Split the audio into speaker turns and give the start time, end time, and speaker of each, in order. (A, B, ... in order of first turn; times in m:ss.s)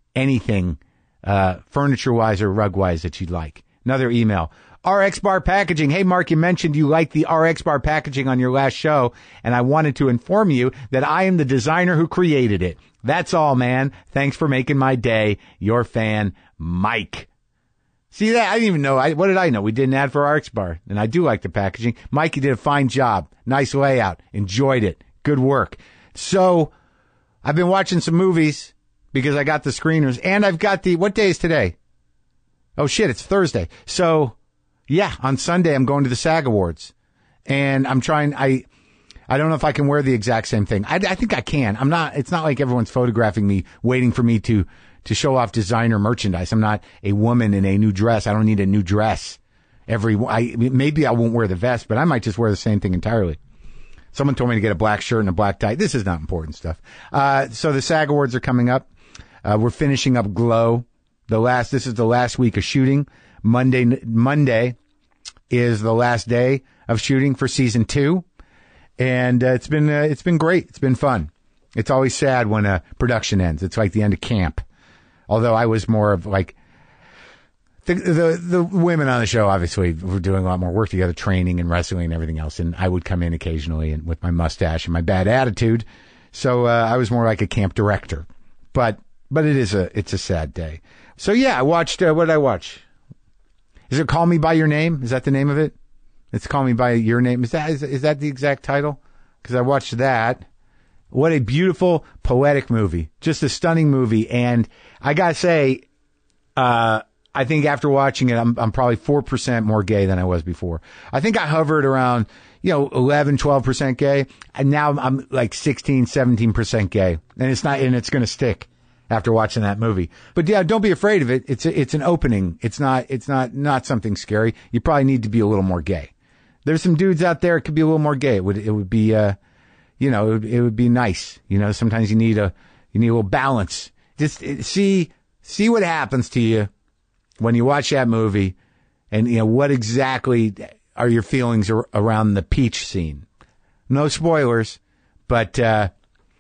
0:00.2-0:17.3 A
0:18.1-0:26.7 A
0:27.4-0:31.8 A
0:32.8-0:34.4 A
0:34.9-0:36.9 A
0:37.5-0:38.7 A
0:39.3-0:53.4 A
0:54.1-0:58.9 A
0:59.4-1:04.8 A
1:05.5-1:08.2 A
1:09.0-1:14.6 A
1:15.3-1:16.6 A
1:17.8-1:32.8 A
1:33.9-1:35.7 A
1:36.3-1:40.4 A
1:41.1-1:45.8 A
1:46.6-2:06.1 A
2:06.6-2:09.4 A
2:10.0-2:16.7 A
2:17.4-2:18.6 A
2:19.1-2:23.2 A
2:23.9-2:25.9 A